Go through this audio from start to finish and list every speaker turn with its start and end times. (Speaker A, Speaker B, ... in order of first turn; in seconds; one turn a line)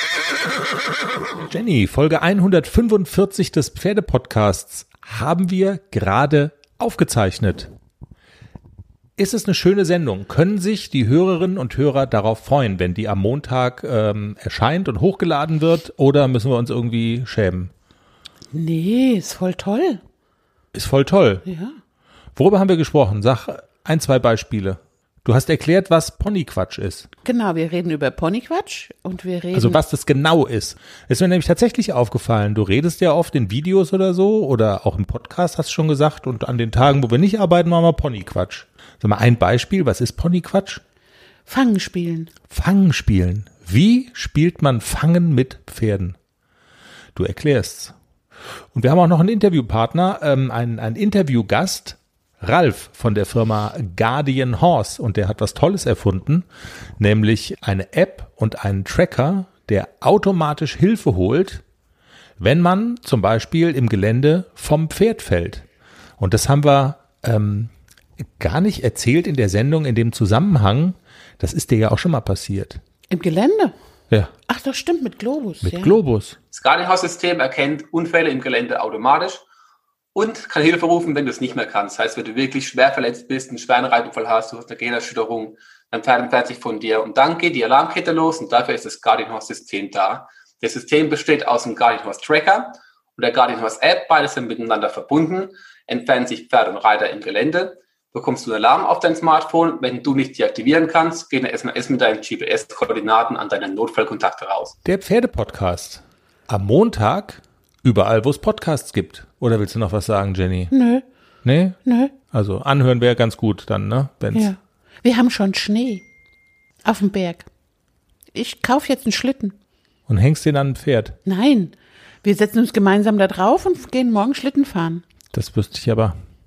Speaker A: 1.4-7.7
Speaker A: 9.2-17.7
Speaker B: 18.5-20.0
Speaker A: 20.7-21.4
Speaker B: 21.4-21.8
Speaker A: 22.3-27.1
Speaker B: 27.2-29.8
Speaker A: 29.5-40.8
Speaker B: 41.5-42.3
Speaker A: 42.5-46.1
Speaker A: 47.1-47.9
Speaker A: 48.7-56.5
Speaker A: 57.0-61.6
Speaker A: 62.4-65.6
Speaker A: 66.2-72.8
Speaker B: 73.1-73.7
Speaker B: 74.5-76.0
Speaker A: 75.6-76.3
Speaker C: 76.5-79.4
Speaker C: 80.1-104.8
Speaker A: 104.8-110.7
Speaker B: 110.7-111.0
Speaker A: 111.4-114.5
Speaker B: 111.8-112.1
Speaker B: 114.3-116.0
Speaker B: 116.8-117.5
Speaker B: 118.3-119.5
Speaker A: 120.1-121.2
Speaker B: 121.2-125.0
Speaker A: 125.3-126.1